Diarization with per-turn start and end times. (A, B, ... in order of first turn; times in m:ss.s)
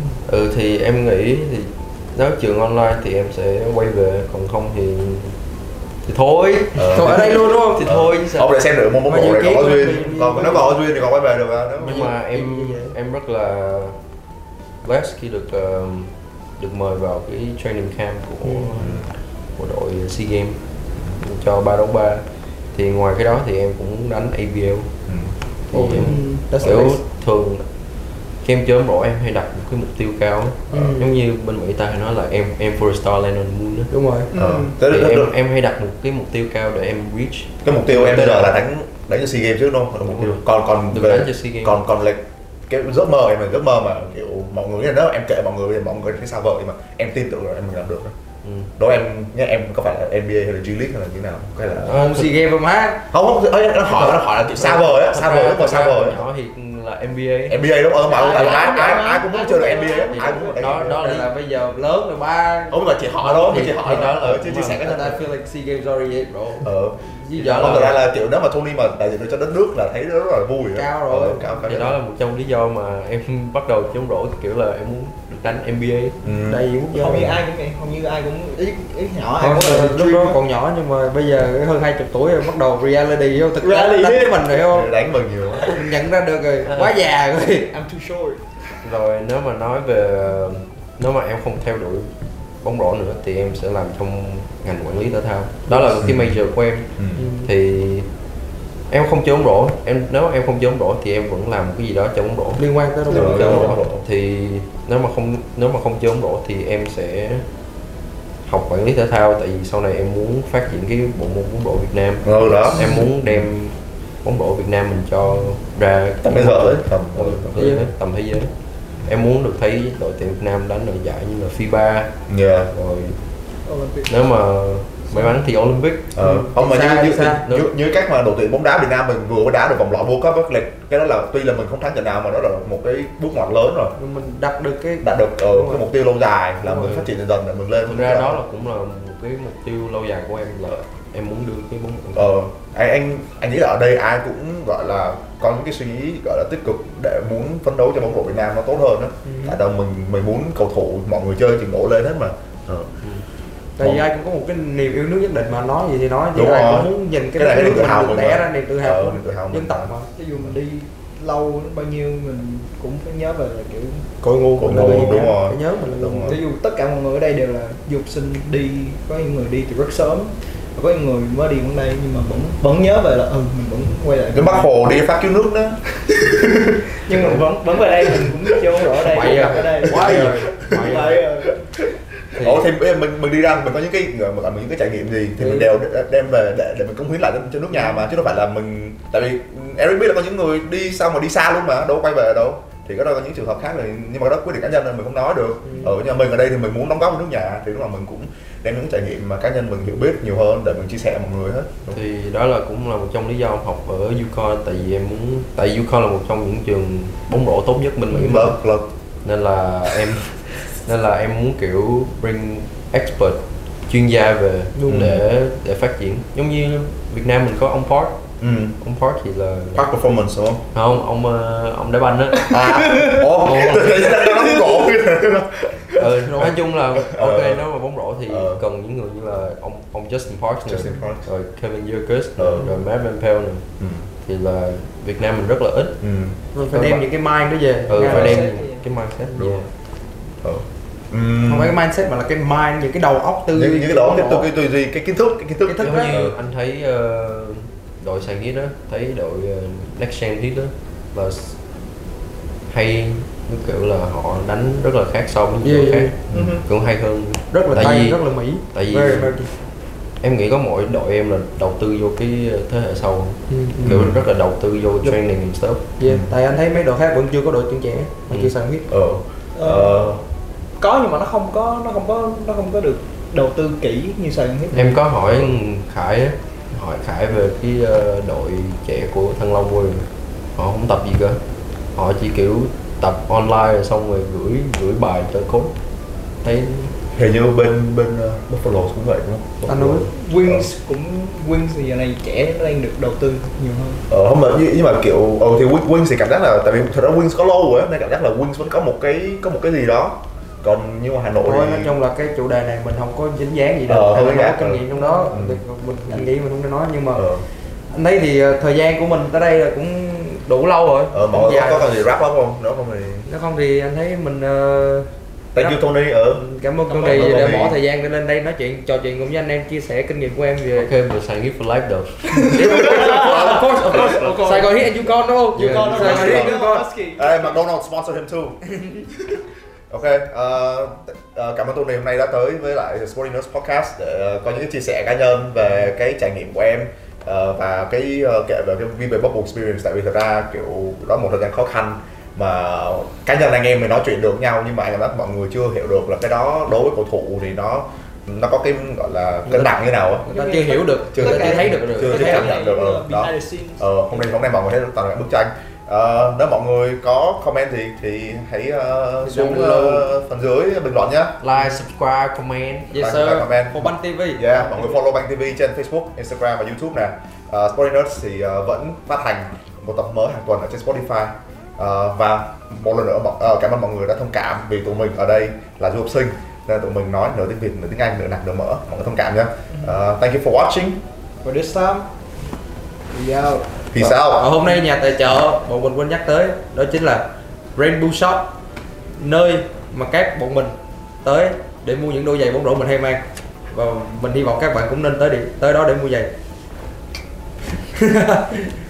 0:00.2-0:05.4 A
0:06.0-0:08.6 A
0:06.7-0:12.1 B
0:06.8-0:07.8 C
0:09.1-0:10.7 C
0:11.8-0:14.0 A
0:11.8-0:12.9 C
0:14.8-0:19.0 A
0:18.6-0:19.1 B
0:19.6-0:20.6 A
0:21.2-0:24.9 A
0:25.1-0:25.3 B
0:25.7-0:27.6 A
0:25.7-0:27.0 C
0:25.9-0:26.4 D
0:28.4-0:33.9 A
0:30.7-0:31.1 C
0:33.9-0:34.3 C
0:34.3-0:34.8 D
0:34.3-0:35.3 B
0:34.9-0:38.5 A
0:37.6-0:48.1 B
0:40.1-0:41.8 A
0:48.4-0:48.7 A
0:48.8-0:51.9 B
0:51.8-0:52.3 A
0:51.9-0:53.1 C
0:53.1-0:56.2 B
0:54.6-0:59.0 A
0:57.5-1:01.0 B
0:58.0-1:00.6 D
1:00.1-1:01.3 A
1:00.9-1:02.8 C
1:02.7-1:05.2 B
1:03.2-1:04.9 A
1:03.3-1:04.0 C
1:04.7-1:07.9 C
1:06.6-1:07.0 B
1:07.3-1:08.0 A
1:07.6-1:12.0 B
1:10.7-1:11.5 C
1:11.6-1:16.2 A
1:16.2-1:17.3 B
1:16.4-1:17.3 C
1:16.9-1:20.4 D
1:19.4-1:24.9 C
1:23.6-1:24.5 D
1:24.6-1:25.9 B
1:25.6-1:27.7 C
1:27.7-1:28.6 D
1:28.8-1:32.1 A
1:32.6-1:38.1 A
1:36.0-1:36.4 B
1:37.0-1:37.2 B
1:37.2-1:37.5 C
1:38.9-1:42.6 A
1:42.6-1:43.9 C
1:43.1-1:43.7 D
1:43.1-1:44.0 B
1:43.5-1:47.4 A
1:48.4-1:58.5 A
1:52.2-1:53.5 B
1:56.2-1:57.6 B
1:57.6-1:57.9 C
1:59.0-2:02.1 A
2:02.3-2:02.7 B
2:02.7-2:03.2 A
2:03.6-2:04.1 D
2:04.1-2:06.1 A
2:06.1-2:13.9 B
2:06.2-2:07.4 C
2:07.4-2:07.7 A
2:14.0-2:15.8 C
2:15.0-2:18.4 B
2:16.6-2:17.1 C
2:17.8-2:22.3 A
2:22.1-2:32.9 B
2:29.2-2:29.6 C
2:33.8-2:40.1 C
2:36.3-2:39.9 B
2:40.2-2:44.1 D
2:44.2-2:46.4 C
2:44.6-2:46.4 B
2:44.7-2:45.0 D
2:46.2-2:54.7 D
2:54.3-2:57.4 B
2:57.0-3:01.6 D
2:58.9-3:01.2 C
2:59.9-3:00.3 B
3:02.3-3:22.0 B
3:05.4-3:05.7 C
3:15.6-3:15.9 C
3:21.9-3:28.5 A
3:28.1-3:28.9 B
3:29.2-3:38.2 A
3:34.8-3:35.2 C
3:34.9-3:35.2 B
3:38.4-3:38.8 B
3:38.8-3:39.8 A
3:39.7-3:40.6 B
3:40.7-3:42.6 A
3:42.5-3:47.6 B
3:43.4-3:44.1 A
3:46.0-3:53.6 A
3:48.3-3:48.6 B
3:50.7-3:51.3 B
3:52.4-3:52.7 B
3:53.8-3:54.1 B
3:54.2-3:56.0 A
3:56.0-3:56.4 B
3:56.5-3:58.4 C
3:56.7-3:57.0 A
3:57.9-3:59.7 A
3:58.0-3:58.8 D
3:58.0-3:58.4 B
3:59.3-3:59.6 C
4:00.4-4:01.8 B
4:01.4-4:04.5 C
4:03.5-4:06.3 B
4:05.6-4:06.2 C
4:05.8-4:11.6 A
4:12.7-4:18.2 A
4:15.6-4:16.1 C
4:16.3-4:16.6 B
4:16.3-4:16.6 D
4:17.5-4:19.5 C
4:18.7-4:19.4 A
4:20.2-4:25.8 A
4:23.5-4:24.0 C
4:23.8-4:24.2 B
4:26.0-4:28.9 C
4:26.0-4:26.3 B
4:28.9-4:30.2 B
4:29.6-4:30.0 D
4:30.8-4:35.0 D
4:34.7-4:41.4 A
4:35.3-4:35.5 B
4:41.9-4:45.7 A
4:46.4-4:47.0 A
4:47.1-4:50.7 B
4:49.6-4:50.1 C
4:50.1-4:54.0 D
4:54.1-5:01.9 B
5:01.4-5:07.3 C
5:03.9-5:05.6 B
5:04.9-5:05.4 D
5:07.1-5:07.4 B
5:07.9-5:11.9 C
5:11.1-5:13.3 B
5:13.3-5:15.8 C
5:15.5-5:16.4 B
5:16.4-5:20.9 C
5:16.9-5:17.4 D
5:16.9-5:17.8 B
5:20.7-5:22.6 A
5:22.4-5:26.9 C
5:22.6-5:24.7 D
5:23.0-5:24.2 B
5:25.5-5:26.2 A
5:25.5-5:27.6 D
5:26.0-5:26.6 B
5:27.2-5:28.6 B
5:29.9-5:50.2 B
5:49.4-5:49.7 C
5:50.2-5:52.6 C
5:50.3-5:53.9 D
5:51.1-6:01.4 B
5:51.7-5:52.0 A
5:59.2-6:00.0 C
6:01.4-6:02.9 A
6:02.9-6:04.8 C
6:03.0-6:21.0 B
6:21.4-6:22.1 D
6:23.1-6:23.8 D
6:23.9-6:24.5 B
6:24.0-6:28.5 C
6:29.2-6:36.3 C
6:37.9-6:38.7 C